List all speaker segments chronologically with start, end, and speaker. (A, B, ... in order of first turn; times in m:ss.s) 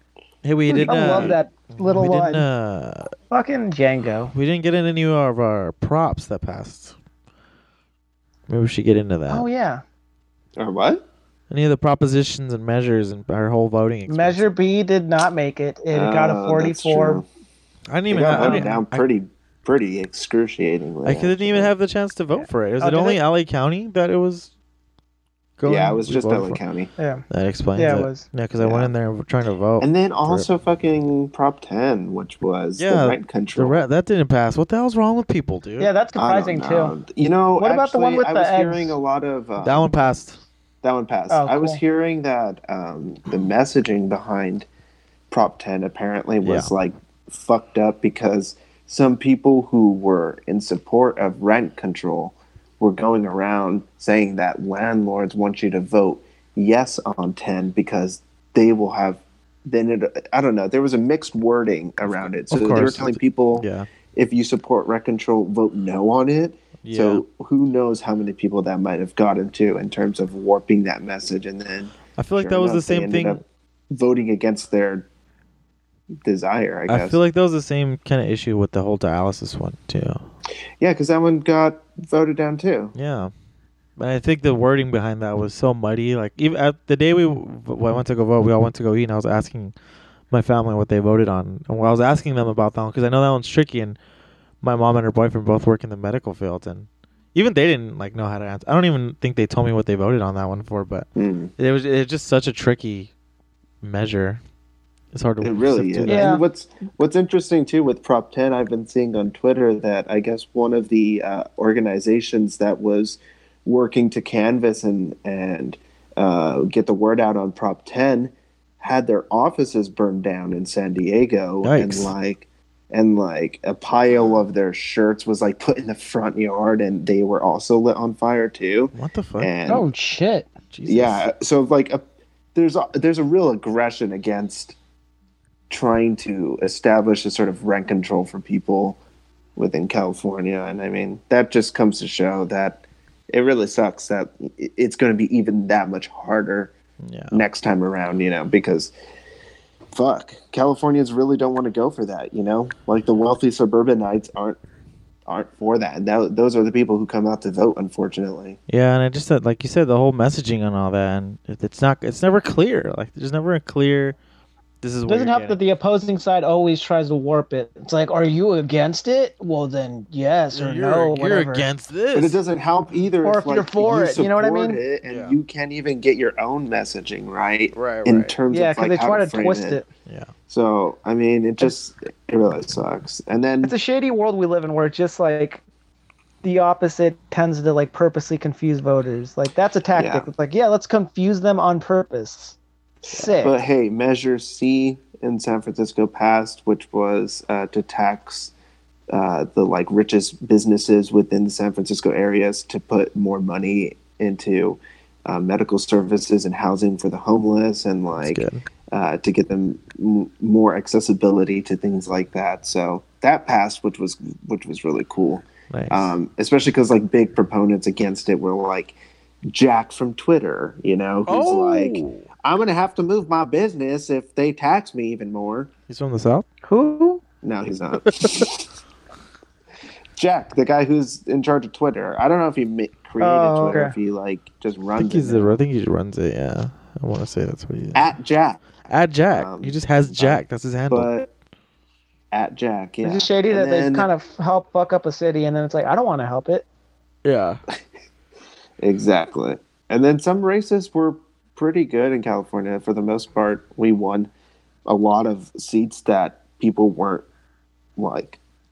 0:00.4-0:03.1 A
0:00.7-0:02.4 B
0:00.9-0:01.4 C
0:03.3-0:04.3 B
0:04.3-0:06.9 A
0:08.5-0:09.4 A
0:09.3-0:09.8 B
0:10.6-0:11.0 C
0:11.5-0:14.4 A
0:14.1-0:17.2 B
0:15.9-0:17.2 C
0:17.9-0:19.0 A
0:18.1-0:21.7 C
0:18.3-0:18.8 B
0:21.0-0:24.5 A
0:22.3-0:23.2 B
0:25.6-0:26.6 A
0:25.6-0:26.9 C
0:27.0-0:27.2 B
0:27.3-0:30.5 A
0:27.8-0:28.2 B
0:28.6-0:28.9 C
0:29.8-0:33.8 C
0:32.8-0:35.9 A
0:35.8-0:37.0 B
0:36.2-0:39.9 C
0:37.6-0:39.0 B
0:39.6-0:40.4 A
0:40.8-0:44.7 C
0:41.3-0:41.8 B
0:45.3-1:15.1 C
0:46.4-0:46.7 A
1:02.0-1:03.9 A
1:06.8-1:07.2 A
1:12.2-1:13.4 A
1:16.2-1:17.2 C
1:16.9-1:20.2 A
1:20.8-1:22.9 C
1:23.0-1:23.3 A
1:24.0-1:29.7 A
1:30.3-1:34.0 A
1:34.6-1:43.1 A
1:41.2-1:41.5 C
1:43.8-1:44.4 A
1:45.1-1:46.4 A
1:45.4-2:09.8 C
1:46.0-1:46.4 B
2:01.6-2:02.1 A
2:04.1-2:04.4 A
2:08.9-2:09.5 A
2:09.7-2:10.5 B
2:10.7-2:11.2 A
2:10.9-2:12.0 C
2:12.5-2:14.8 C
2:15.7-2:19.0 C
2:19.6-2:26.7 C
2:27.0-2:27.4 A
2:27.3-2:28.9 C
2:29.9-2:34.6 C
2:35.2-2:38.6 C
2:38.7-2:44.2 A
2:44.8-2:45.6 A
2:45.1-2:51.6 B
2:50.5-2:52.4 A
2:52.1-2:59.8 C
2:53.2-2:54.8 B
2:55.0-2:55.3 A
2:57.7-2:58.3 A
2:58.5-2:59.8 B
3:00.5-3:03.7 C
3:03.6-3:05.6 B
3:06.4-3:12.6 B
3:09.9-3:10.3 C
3:13.1-3:13.5 B
3:13.4-3:18.5 C
3:19.1-3:39.0 C
3:28.2-3:28.6 A
3:35.7-3:36.1 A
3:39.5-3:45.7 C
3:41.3-3:42.2 A
3:45.9-3:46.4 A
3:46.6-3:47.2 B
3:47.4-3:48.6 C
3:50.2-3:55.6 C
3:53.2-3:53.9 B
3:55.0-3:58.0 A
3:57.9-3:58.6 C
3:58.9-4:01.1 A
3:59.3-4:01.3 C
4:02.3-4:04.1 C
4:03.0-4:06.6 B
4:07.2-4:07.6 A
4:08.8-4:14.3 C
4:14.8-4:17.2 C
4:18.0-4:18.4 C